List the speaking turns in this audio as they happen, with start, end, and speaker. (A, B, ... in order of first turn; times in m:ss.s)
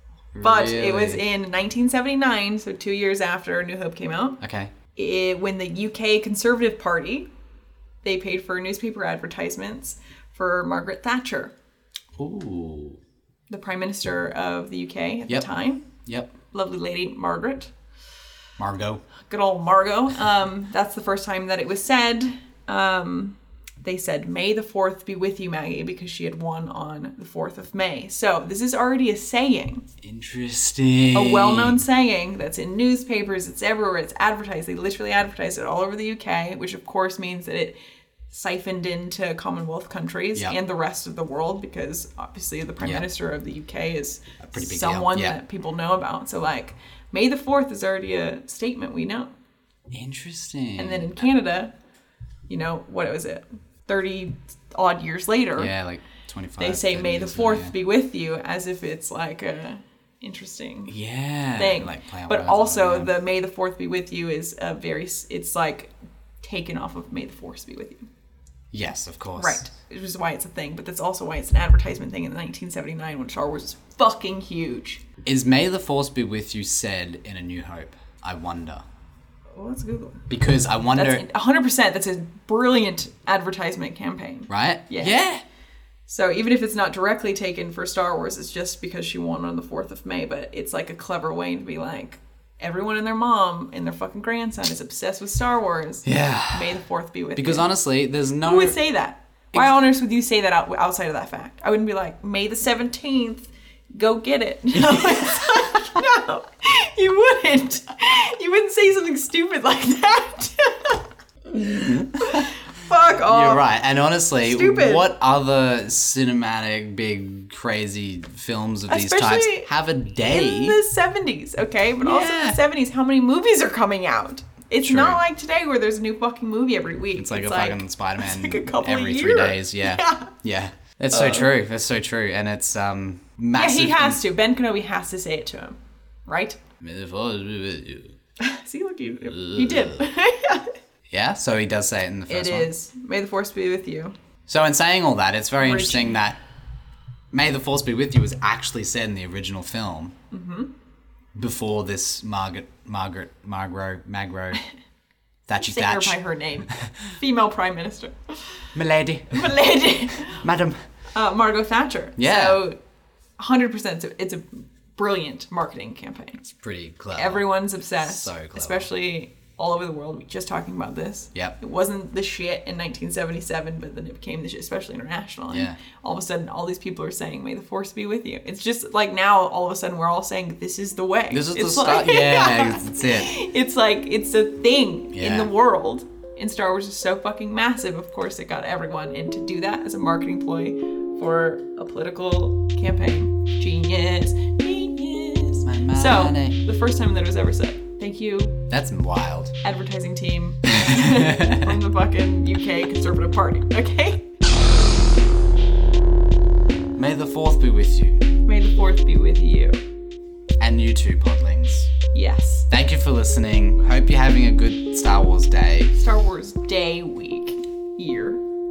0:00.3-0:01.2 A
0:00.4-0:04.4 B
0:04.4-0:04.7 A
0:04.9-0:07.3 B
0:08.0-0:11.5 B
0:12.2-0:13.0 A
0:13.5-0:15.8 B
0:16.0-0:16.3 A
0:16.5-0:17.7 B
0:18.6-0:19.0 A
0:19.3-0:29.8 B
0:30.0-0:31.8 A
0:31.1-0:37.8 B
0:38.3-0:49.3 B
0:42.8-0:43.1 A
0:44.4-0:45.4 A
0:49.9-0:51.2 A
0:50.8-0:51.7 B
0:52.5-0:55.7 B
0:55.6-0:57.7 A
0:56.6-1:00.9 B
1:00.9-1:03.1 A
1:01.6-1:08.1 B
1:08.7-1:09.6 A
1:09.3-1:15.0 B
1:15.2-1:18.8 A
1:19.5-1:20.2 B
1:20.3-1:21.2 A
1:20.9-1:25.2 B
1:24.5-1:25.4 A
1:26.1-1:37.7 B
1:36.0-1:36.8 A
1:37.4-1:38.8 A
1:38.4-1:51.0 B
1:44.8-1:45.5 A
1:51.5-1:52.6 A
1:52.2-1:53.7 B
1:53.2-2:00.8 A
1:54.4-1:55.1 B
1:58.9-2:10.3 B
2:02.0-2:02.6 A
2:04.8-2:05.2 A
2:07.2-2:14.2 A
2:11.1-2:11.5 B
2:13.5-2:16.6 B
2:16.8-2:18.2 A
2:18.4-2:20.7 B
2:19.2-2:20.1 A
2:21.1-2:22.7 A
2:22.3-2:24.2 B
2:24.5-2:26.4 A
2:25.6-2:26.2 B
2:27.3-2:30.1 A
2:30.3-2:30.7 B
2:31.3-2:34.6 A
2:35.5-2:36.2 A
2:35.6-2:38.7 B
2:38.7-2:39.6 A
2:39.3-2:40.4 B
2:40.2-2:40.8 A
2:41.1-2:42.8 B
2:42.2-2:42.6 A
2:43.4-2:46.4 B
2:46.6-2:48.9 A
2:47.1-3:18.6 B
2:55.5-2:55.8 A
3:01.3-3:03.3 A
3:05.1-3:05.5 A
3:15.6-3:16.6 A
3:18.7-3:19.5 A
3:19.6-3:24.3 B
3:20.8-3:21.6 A
3:26.9-3:28.3 A
3:28.4-3:29.8 B
3:30.6-3:31.9 A
3:32.1-3:32.7 B
3:32.7-3:35.9 A
3:35.9-3:38.4 B